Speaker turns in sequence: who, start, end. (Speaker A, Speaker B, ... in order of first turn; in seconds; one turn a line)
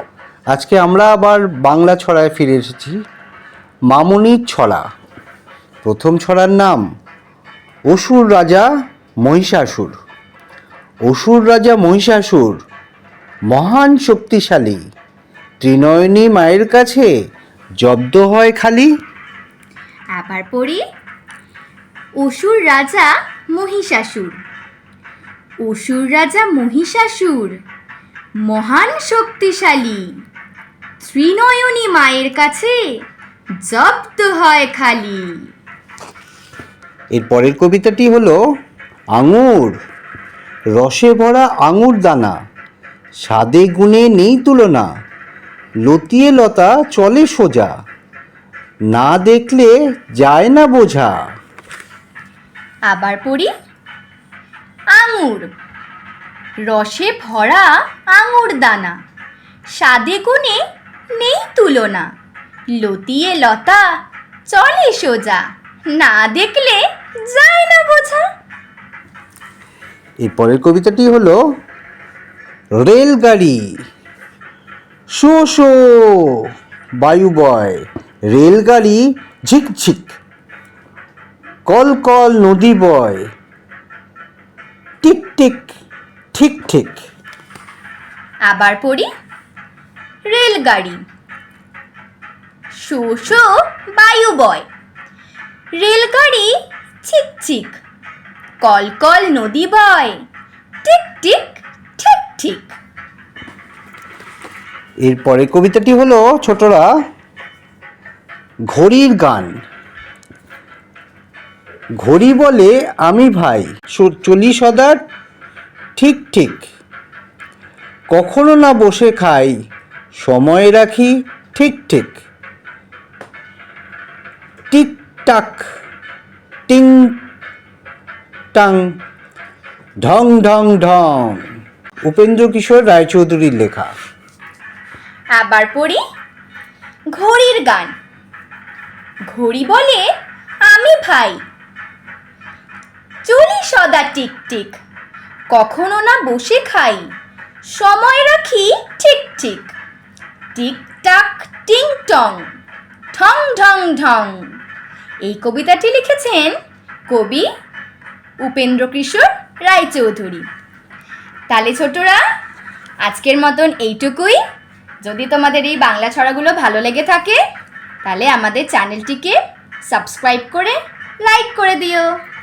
Speaker A: 0.5-3.0
Speaker A: 3.9-4.8
Speaker A: 5.8-6.8
Speaker A: 7.9-8.7
Speaker A: 9.2-9.9
Speaker A: 11.1-12.6
Speaker A: 13.5-14.8
Speaker A: 15.6-17.1
Speaker A: 17.8-18.9
Speaker B: 20.1-20.8
Speaker B: 22.2-24.4
Speaker B: 25.6-27.6
Speaker B: 28.4-30.2
Speaker B: 31.0-32.9
Speaker B: 33.6-35.5
Speaker A: 37.1-38.4
Speaker A: 39.1-39.8
Speaker A: 40.8-42.4
Speaker A: 43.2-44.9
Speaker A: 45.9-47.7
Speaker A: 48.9-51.1
Speaker B: 52.9-53.5
Speaker B: 54.9-55.5
Speaker B: 56.6-59.0
Speaker B: 59.7-60.6
Speaker B: 61.1-62.1
Speaker B: 62.7-64.0
Speaker B: 64.5-68.2
Speaker A: 70.2-71.4
Speaker A: 72.8-73.6
Speaker A: 75.2-76.2
Speaker A: 77.0-80.2
Speaker A: 81.7-83.2
Speaker A: 85.0-85.7
Speaker A: 86.3-87.0
Speaker B: 88.5-89.1
Speaker B: 90.3-91.0
Speaker B: 92.7-94.7
Speaker B: 95.8-96.5
Speaker B: 97.0-97.8
Speaker B: 98.6-100.2
Speaker B: 100.8-102.7
Speaker A: 105.0-106.9
Speaker A: 108.7-109.5
Speaker A: 112.0-115.0
Speaker A: 116.0-116.6
Speaker A: 118.1-119.5
Speaker A: 120.2-122.1
Speaker A: 124.7-125.6
Speaker A: 126.7-127.2
Speaker A: 128.5-128.9
Speaker A: 130.0-131.4
Speaker A: 132.1-133.9
Speaker B: 135.3-136.0
Speaker B: 137.1-137.9
Speaker B: 139.3-140.1
Speaker B: 140.6-141.4
Speaker B: 143.2-144.8
Speaker B: 145.5-147.1
Speaker B: 147.7-149.7
Speaker B: 150.5-152.5
Speaker B: 153.1-154.6
Speaker B: 155.2-156.5
Speaker B: 157.1-157.5
Speaker B: 158.4-160.5
Speaker B: 161.5-162.2
Speaker B: 163.0-164.4
Speaker B: 165.0-167.4
Speaker B: 168.0-172.1